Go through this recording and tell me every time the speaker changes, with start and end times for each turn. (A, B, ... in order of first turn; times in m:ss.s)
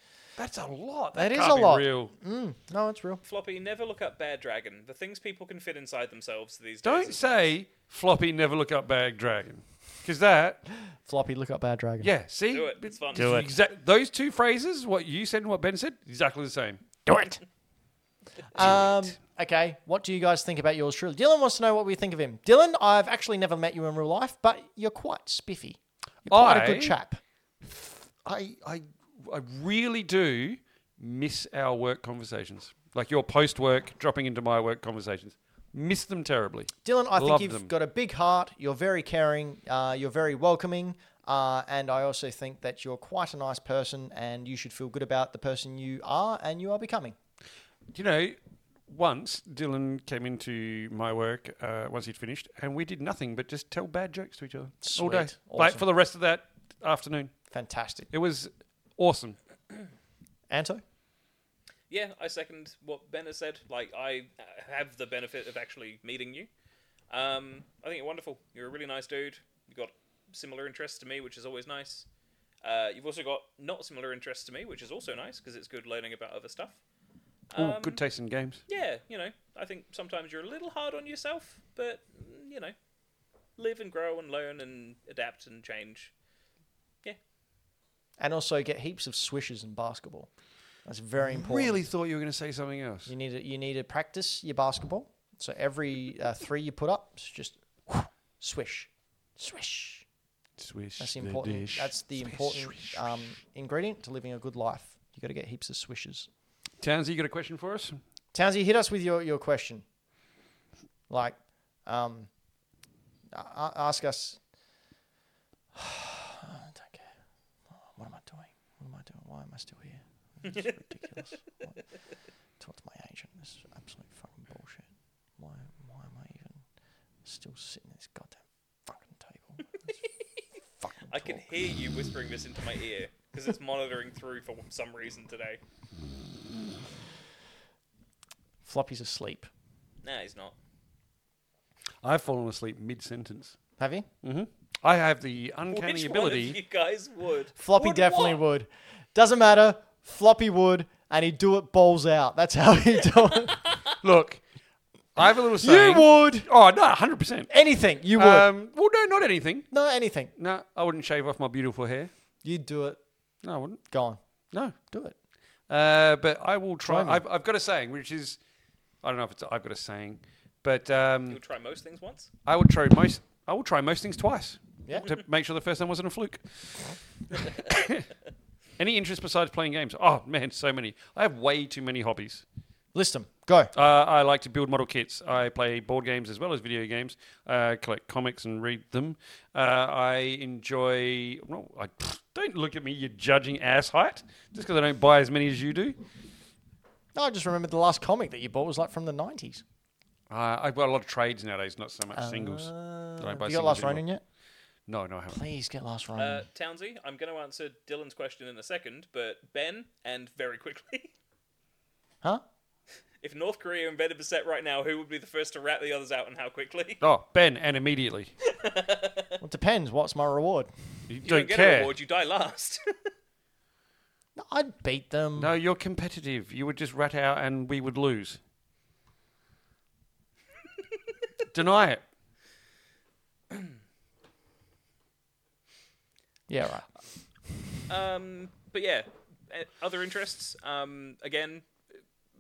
0:00.4-0:02.1 A
0:01.1-0:03.2 B
0:03.2-0:07.5 C
0:06.8-0:10.6 A
0:10.9-0:12.1 B
0:12.0-0:17.4 A
0:12.5-0:13.5 C
0:13.2-0:13.4 B
0:18.5-0:27.2 B
0:18.6-0:19.0 A
0:26.3-0:27.0 A
0:28.2-0:37.7 A
0:36.8-0:47.2 B
0:47.9-0:57.3 A
0:54.8-0:55.8 B
0:57.5-0:58.1 B
0:58.1-0:59.4 A
1:00.5-1:00.8 B
1:01.9-1:06.5 C
1:07.1-1:12.1 C
1:12.6-1:16.8 C
1:17.5-1:18.0 C
1:17.6-1:18.6 A
1:18.7-1:22.8 C
1:23.6-1:26.1 C
1:28.2-1:30.3 B
1:30.8-1:31.8 B
1:31.2-1:33.1 A
1:33.1-1:40.0 B
1:40.6-1:43.2 A
1:41.0-1:46.3 B
1:46.8-1:48.0 A
1:48.3-1:49.8 B
1:51.1-1:52.3 B
1:53.3-1:54.4 B
1:55.8-1:57.1 B
1:57.7-2:01.8 B
2:00.5-2:00.8 C
2:02.6-2:06.6 B
2:07.2-2:09.9 B
2:10.8-2:11.5 B
2:11.1-2:15.6 C
2:18.6-2:19.5 B
2:20.0-2:20.6 C
2:22.0-2:23.6 A
2:23.8-2:24.1 B
2:24.2-2:26.6 A
2:25.7-2:28.4 C
2:27.6-2:33.6 B
2:33.5-2:33.9 C
2:34.0-2:34.4 A
2:35.2-2:37.5 A
2:35.6-2:36.5 B
2:37.5-2:38.6 B
2:38.2-2:39.7 A
2:39.7-2:40.3 B
2:40.4-2:42.1 A
2:42.4-2:43.0 B
2:43.4-2:43.8 A
2:43.9-2:44.2 B
2:44.9-2:45.2 B
2:45.7-2:48.4 A
2:46.8-2:47.2 B
2:49.0-2:51.4 A
2:51.3-2:52.3 C
2:52.5-2:58.1 A
2:54.9-2:55.1 B
2:58.8-3:02.4 A
3:02.9-3:03.7 B
3:03.7-3:16.0 A
3:17.2-3:19.6 B
3:20.3-3:24.0 A
3:22.1-3:24.2 B
3:24.9-3:25.4 A
3:25.3-3:26.5 B
3:26.2-3:31.1 C
3:33.2-3:37.0 C
3:37.0-3:38.3 A
3:38.5-3:39.4 C
3:39.4-3:40.7 B
3:41.1-3:41.9 A
3:41.2-3:42.9 C
3:44.4-3:45.5 B
3:45.4-3:48.4 A
3:51.5-3:52.0 A
3:56.5-3:56.9 B
3:57.9-4:01.7 C